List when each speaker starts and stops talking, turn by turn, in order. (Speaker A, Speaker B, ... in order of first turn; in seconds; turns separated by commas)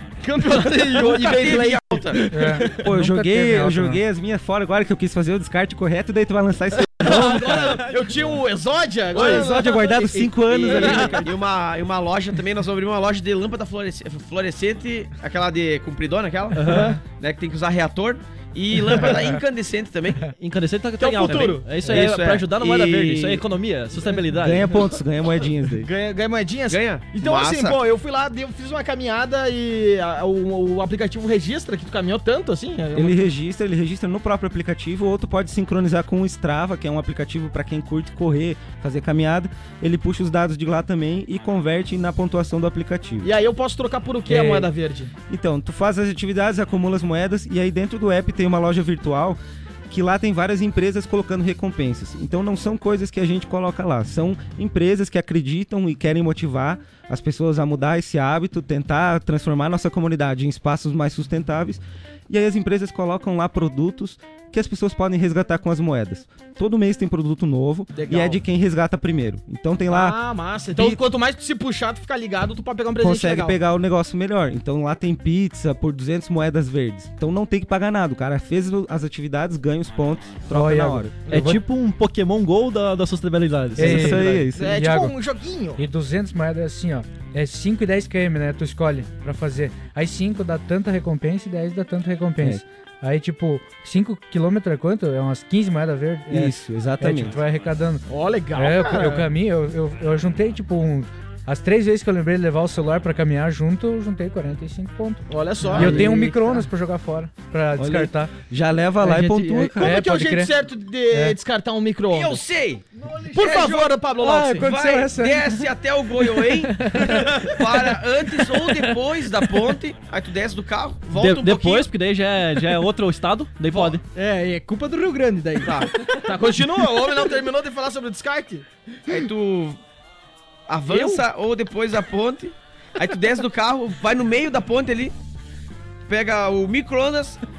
Speaker A: 0.2-2.8, Speaker B: 0.6-2.3, Speaker C: 2.3-4.0, Speaker D: 2.7-7.8, Speaker A: 7.0-11.3, Speaker E: 7.1-7.8, Speaker D: 9.1-11.2, Speaker B: 10.5-20.3, Speaker E: 16.5-17.0, Speaker A: 16.6-17.0, Speaker E: 20.4-24.8, Speaker A: 21.0-22.0, Speaker B: 21.2-23.4, Speaker D: 24.3-25.9, Speaker A: 25.8-33.2, Speaker B: 26.7-27.8, Speaker D: 32.9-43.3, Speaker A: 43.2-45.1, Speaker D: 44.2-44.7, Speaker D: 45.3-70.2, Speaker A: 67.9-68.4, Speaker A: 69.9-73.6, Speaker D: 70.7-71.0, Speaker D: 73.0-81.2, Speaker C: 80.5-81.6, Speaker E: 81.3-84.5, Speaker D: 83.8-85.0, Speaker C: 83.8-85.1, Speaker A: 84.5-85.8, Speaker C: 85.8-108.3, Speaker D: 96.3-97.4, Speaker A: 98.1-99.3, Speaker A: 105.3-106.3, Speaker D: 105.7-106.3, Speaker D: 107.8-110.0, Speaker C: 109.0-110.5, Speaker A: 109.8-112.4, Speaker C: 111.1-111.4, Speaker B: 112.1-114.0, Speaker A: 113.2-114.8, Speaker C: 114.2-115.6, Speaker B: 114.5-121.9, Speaker C: 116.6-117.5, Speaker E: 121.1-124.0, Speaker A: 123.7-124.0, Speaker F: 124.1-125.9, Speaker B: 125.6-125.9, Speaker A: 126.2-128.6, Speaker B: 129.1-129.8, Speaker B: 130.7-135.1, Speaker F: 130.9-131.2, Speaker B: 136.1-137.4